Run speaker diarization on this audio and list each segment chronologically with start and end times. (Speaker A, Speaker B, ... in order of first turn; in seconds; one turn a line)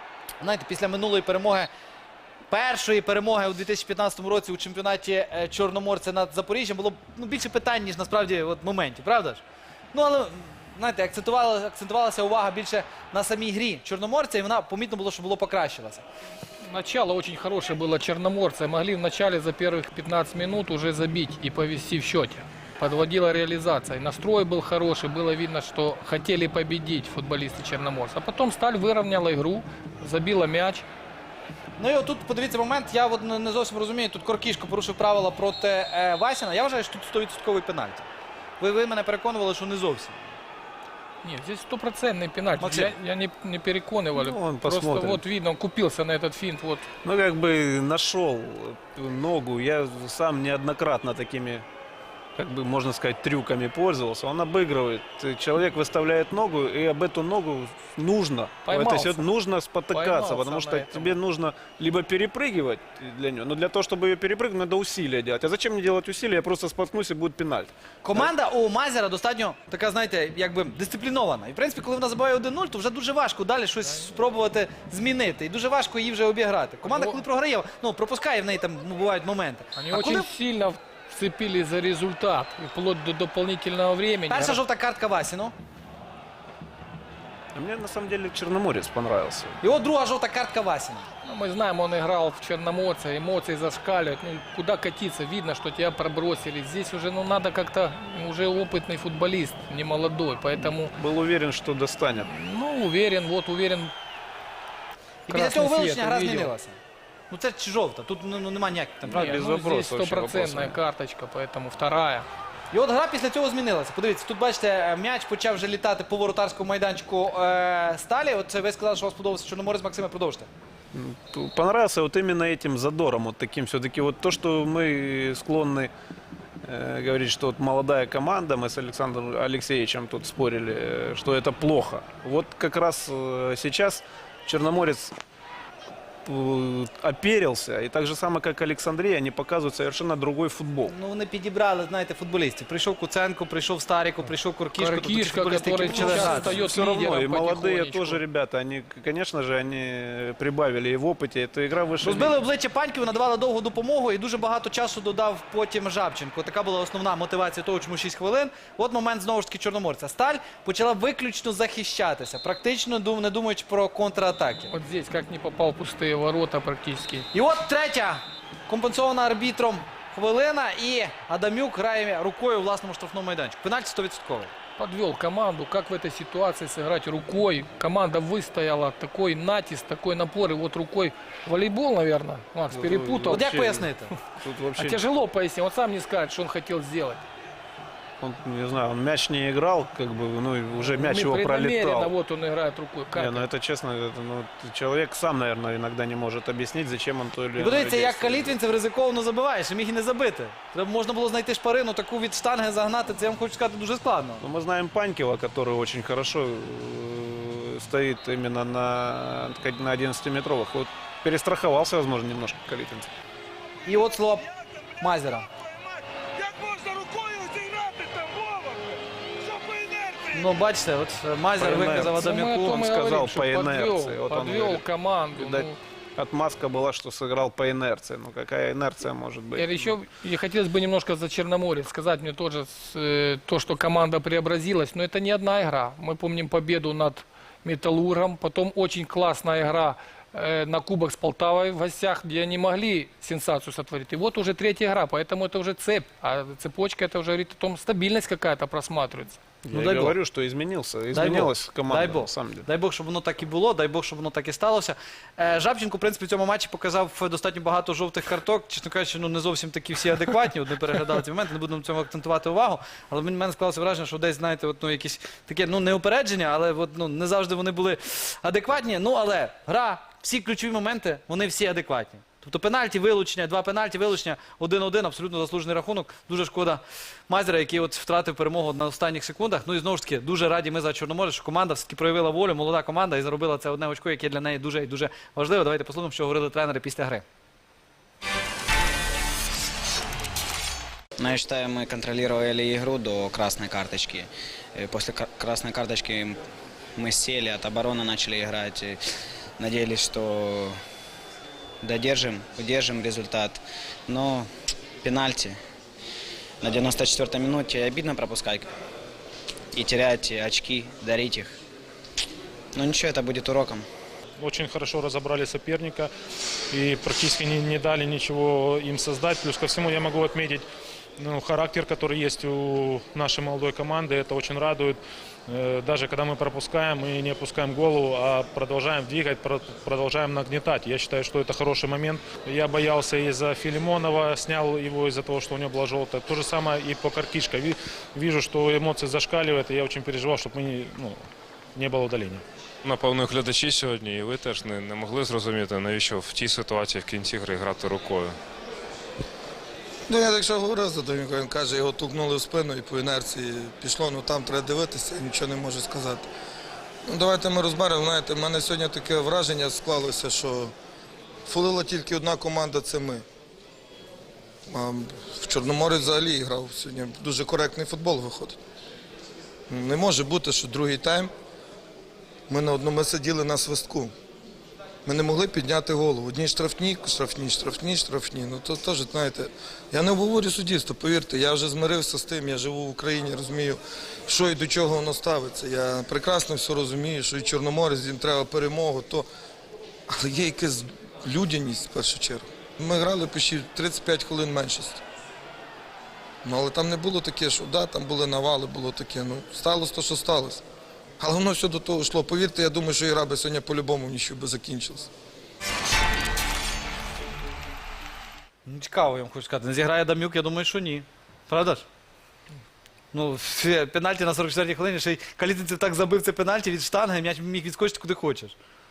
Speaker A: 0.4-1.7
Speaker A: 2.5-16.1
Speaker B: 16.6-30.9
Speaker A: 31.8-38.1
Speaker A: 38.6-40.3
Speaker B: 41.2-46.9
Speaker A: 42.6-42.9
Speaker C: 44.1-45.2
Speaker C: 47.0-51.7
Speaker C: 52.4-68.3
Speaker B: 58.7-59.2
Speaker B: 59.9-61.2
Speaker A: 68.0-80.3
Speaker B: 76.9-77.2
Speaker B: 79.8-84.6
Speaker A: 84.3-85.5
Speaker C: 87.5-89.6
Speaker A: 89.6-91.1
Speaker B: 91.3-100.9
Speaker C: 101.0-102.3
Speaker B: 102.2-103.9
Speaker A: 105.3-106.8
Speaker B: 105.3-106.5
Speaker A: 107.3-109.4
Speaker B: 109.1-112.3
Speaker C: 109.1-110.8
Speaker A: 112.7-120.5
Speaker C: 120.9-125.9
Speaker C: 126.7-135.2
Speaker C: 136.2-140.9
Speaker A: 140.9-146.6
Speaker B: 144.7-148.2
Speaker C: 145.7-152.4
Speaker A: 152.0-164.7
Speaker B: 164.7-167.3
Speaker A: 167.3-174.5
Speaker B: 174.8-183.5
Speaker C: 182.7-183.9
Speaker A: 183.3-184.1
Speaker C: 184.4-185.0
Speaker B: 184.8-187.2
Speaker C: 188.2-192.1
Speaker B: 190.9-193.5
Speaker C: 193.2-198.6
Speaker A: 197.6-204.4
Speaker C: 204.4-213.1
Speaker A: 213.8-214.5
Speaker A: 215.0-215.5
Speaker A: 220.3-222.8
Speaker C: 221.6-229.9
Speaker B: 222.2-225.8
Speaker B: 229.6-249.4
Speaker C: 249.7-252.7
Speaker A: 249.7-250.2
Speaker A: 251.1-287.2
Speaker D: 291.2-296.4
Speaker D: 297.0-299.0
Speaker D: 299.6-300.8
Speaker D: 301.8-304.5
Speaker D: 305.0-305.6
Speaker D: 306.6-308.7
Speaker D: 309.7-311.6
Speaker D: 312.8-313.9
Speaker E: 314.4-316.1
Speaker E: 316.7-320.6
Speaker E: 321.2-342.4
Speaker F: 342.8-348.4
Speaker G: 350.1-356.3
Speaker G: 357.1-360.7
Speaker G: 361.5-363.2
Speaker G: 364.7-368.6
Speaker G: 369.7-371.3
Speaker G: 372.5-374.1
Speaker G: 375.1-389.3
Speaker G: 390.1-395.0
Speaker G: 396.4-400.6
Speaker G: 401.2-405.1
Speaker A: 408.7-411.9
Speaker A: 413.1-418.6